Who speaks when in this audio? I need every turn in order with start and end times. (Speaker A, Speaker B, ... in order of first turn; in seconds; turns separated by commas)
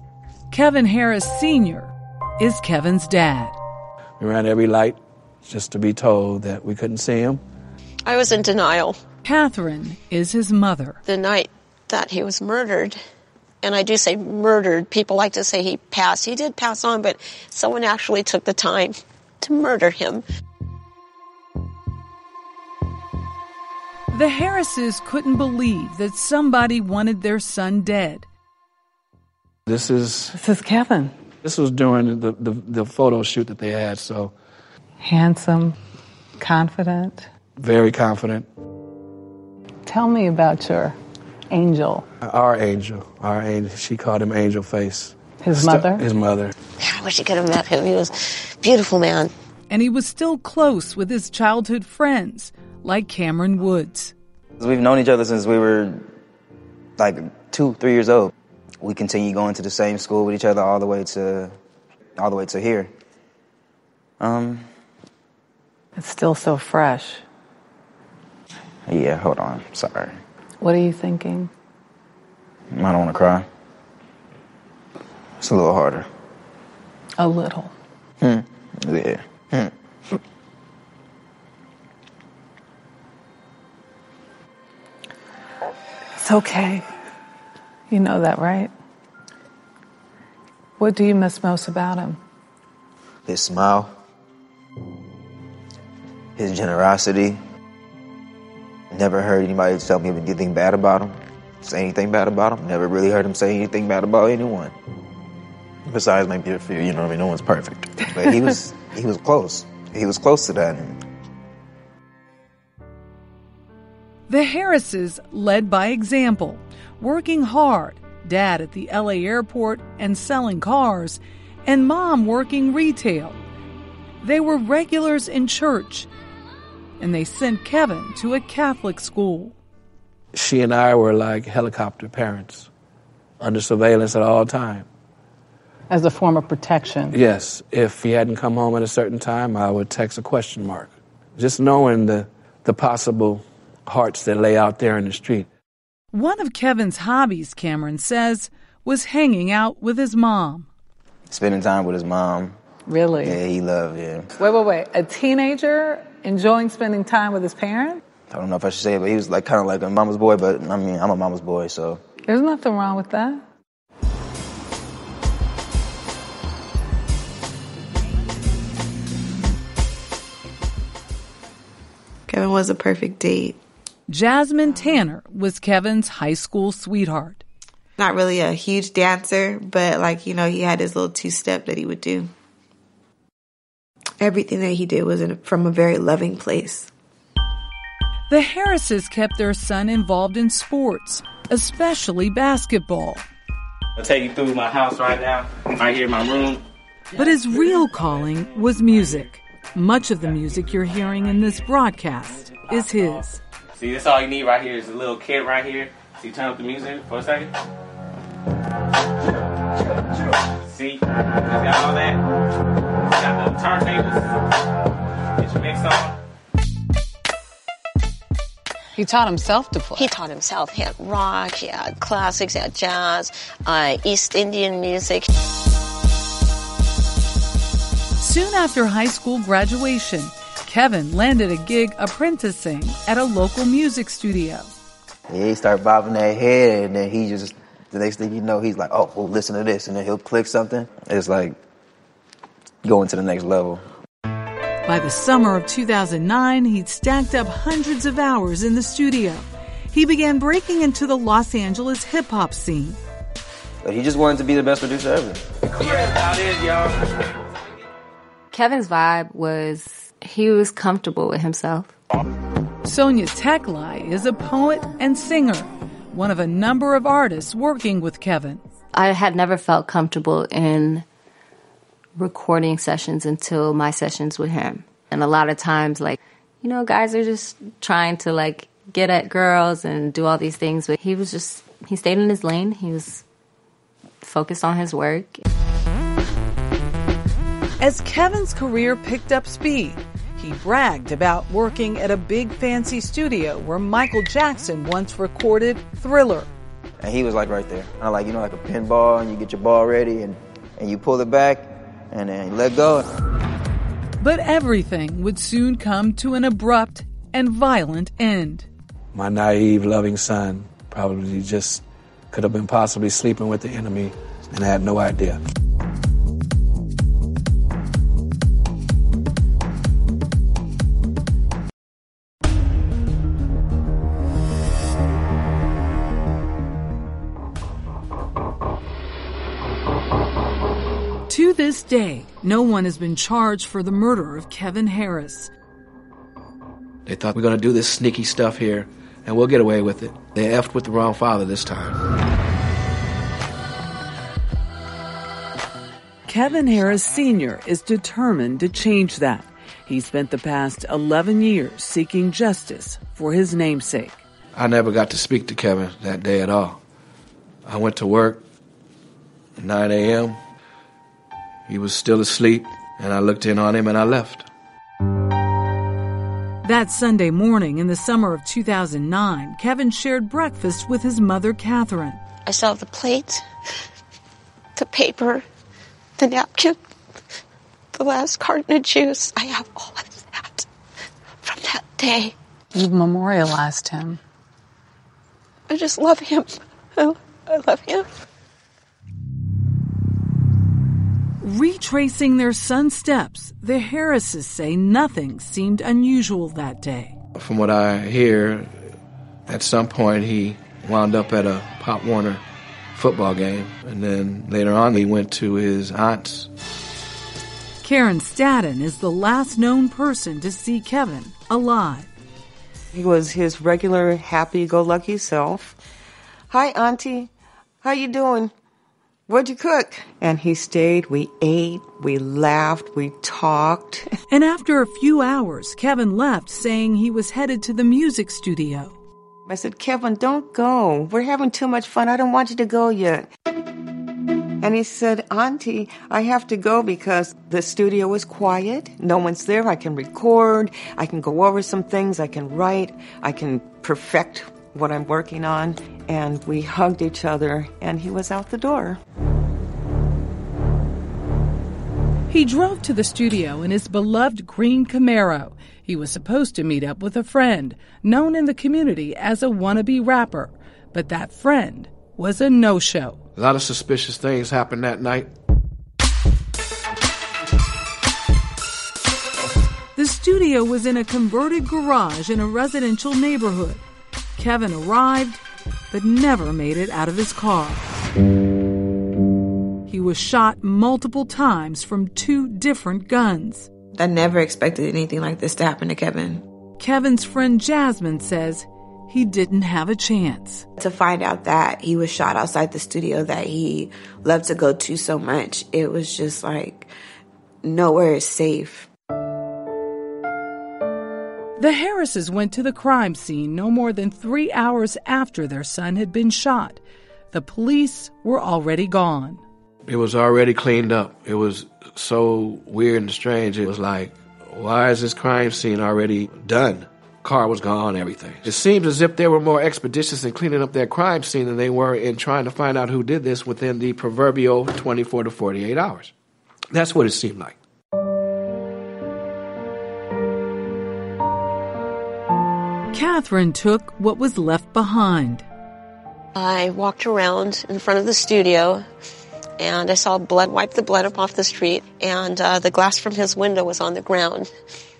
Speaker A: 0.5-3.6, Speaker B: 4.2-7.4, Speaker C: 8.1-9.0, Speaker A: 9.2-11.0, Speaker C: 11.1-13.0, Speaker C: 13.6-20.2, Speaker A: 24.1-28.3, Speaker B: 29.7-30.3, Speaker D: 30.3-31.1, Speaker B: 31.4-34.3, Speaker D: 35.0-35.8, Speaker D: 36.4-37.3, Speaker B: 37.6-38.5, Speaker D: 39.9-41.0, Speaker D: 41.5-42.1, Speaker B: 42.2-46.5, Speaker D: 45.4-46.0, Speaker C: 46.8-49.3, Speaker A: 49.7-54.1, Speaker E: 54.6-56.1, Speaker E: 57.0-61.5, Speaker E: 62.2-62.9, Speaker E: 64.2-64.7, Speaker D: 66.0-67.2, Speaker E: 68.9-70.2, Speaker D: 70.6-71.5, Speaker E: 72.7-73.5, Speaker E: 75.4-76.1, Speaker D: 77.2-77.7, Speaker E: 78.2-79.7, Speaker D: 86.2-86.9, Speaker D: 87.9-88.7, Speaker D: 90.8-92.2, Speaker E: 93.3-93.9, Speaker E: 96.4-97.4, Speaker E: 98.9-104.7, Speaker E: 105.8-111.0, Speaker A: 114.3-123.4, Speaker A: 124.2-126.1, Speaker A: 127.0-129.6, Speaker B: 130.3-132.7, Speaker B: 133.4-134.9, Speaker D: 135.9-137.2, Speaker B: 137.1-145.5, Speaker A: 146.1-150.7, Speaker E: 151.3-152.5, Speaker D: 152.9-153.4, Speaker E: 153.2-154.3, Speaker D: 154.4-158.0, Speaker E: 158.3-162.0, Speaker D: 162.3-163.4, Speaker F: 172.3-173.6, Speaker A: 174.1-177.4, Speaker F: 178.0-182.3, Speaker F: 184.2-186.9, Speaker A: 188.3-193.2, Speaker G: 194.0-196.6, Speaker A: 197.2-203.4, Speaker G: 203.8-207.5, Speaker G: 210.7-212.2, Speaker G: 213.1-214.3, Speaker G: 215.4-216.1, Speaker D: 219.0-220.1, Speaker C: 220.0-225.3, Speaker A: 228.2-234.7, Speaker E: 235.3-241.6, Speaker E: 242.8-243.8, Speaker A: 244.9-253.0, Speaker E: 253.8-255.5, Speaker G: 255.7-257.3, Speaker H: 258.5-261.9, Speaker A: 262.8-268.6, Speaker H: 268.9-271.1, Speaker H: 272.2-283.2, Speaker H: 284.2-285.4, Speaker A: 287.8-296.5, Speaker E: 297.0-303.1, Speaker A: 304.2-308.7, Speaker B: 309.1-315.4, Speaker A: 331.3-335.5, Speaker B: 337.1-342.0, Speaker A: 346.3-354.1, Speaker D: 348.3-348.6, Speaker D: 350.0-350.3, Speaker D: 353.6-354.1, Speaker B: 354.5-356.8, Speaker B: 357.6-358.4, Speaker B: 359.6-360.4, Speaker B: 361.7-364.5, Speaker A: 366.6-372.2, Speaker C: 372.5-373.5, Speaker C: 374.8-375.4, Speaker C: 376.2-376.8, Speaker C: 377.9-380.7, Speaker C: 381.4-382.4, Speaker D: 382.7-384.2, Speaker C: 385.7-388.1, Speaker A: 391.4-397.1, Speaker B: 397.4-398.9, Speaker B: 399.5-402.4, Speaker B: 402.9-406.5, Speaker A: 407.8-412.1, Speaker I: 412.9-415.8, Speaker I: 416.5-417.3, Speaker I: 417.8-418.5, Speaker I: 419.3-424.1, Speaker A: 424.3-429.0, Speaker I: 429.5-433.3, Speaker I: 434.6-449.0, Speaker A: 452.3-463.2, Speaker B: 463.4-465.3, Speaker A: 470.0-473.8, Speaker A: 474.4-477.8, Speaker A: 479.9-483.7, Speaker F: 483.9-486.4, Speaker A: 486.8-490.7, Speaker F: 490.8-496.9, Speaker F: 497.6-498.9, Speaker A: 501.6-509.4, Speaker B: 509.9-526.1, Speaker B: 526.7-527.6, Speaker A: 532.9-535.5, Speaker C: 536.4-538.9, Speaker C: 539.6-544.5